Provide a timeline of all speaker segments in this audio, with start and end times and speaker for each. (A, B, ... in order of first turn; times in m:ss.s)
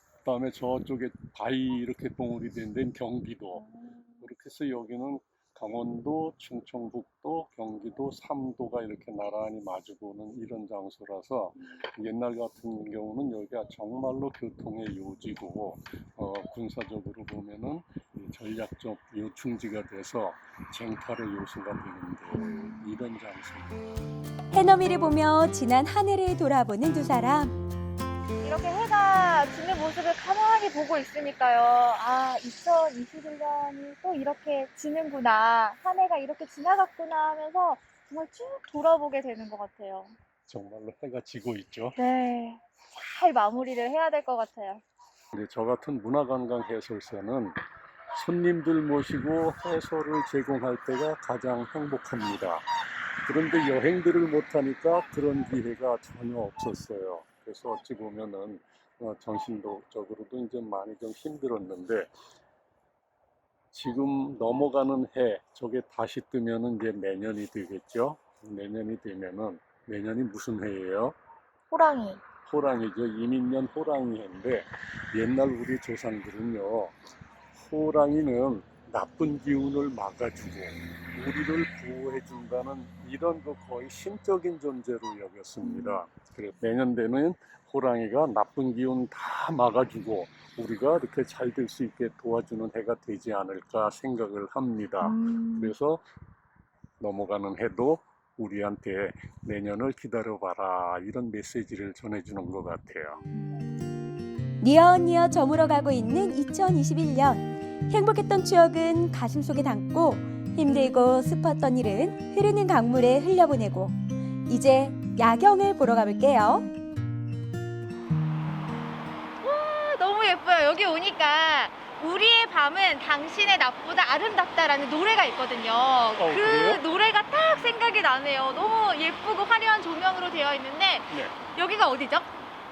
0:00.2-0:03.6 A
0:03.5-0:04.1 B
0:04.2-0:23.9 A
0:22.3-0:22.8 B
0:24.5-0:27.6 C
0:28.4-0:40.1 B
0:40.5-0:42.0 A
0:42.0-0:44.8 B
0:45.3-0:47.6 A
0:48.1-0:52.6 A
0:53.2-1:02.1 A
1:03.7-1:11.2 A
1:11.7-1:12.2 B
1:12.5-1:16.9 A
1:17.6-1:36.0 A
1:25.6-1:26.0 B
1:35.0-1:35.7 B
1:37.0-1:43.2 A
1:43.3-1:43.6 B
1:44.6-1:56.7 C
1:59.4-2:12.3 B
2:06.2-2:06.8 A
2:11.1-2:11.4 A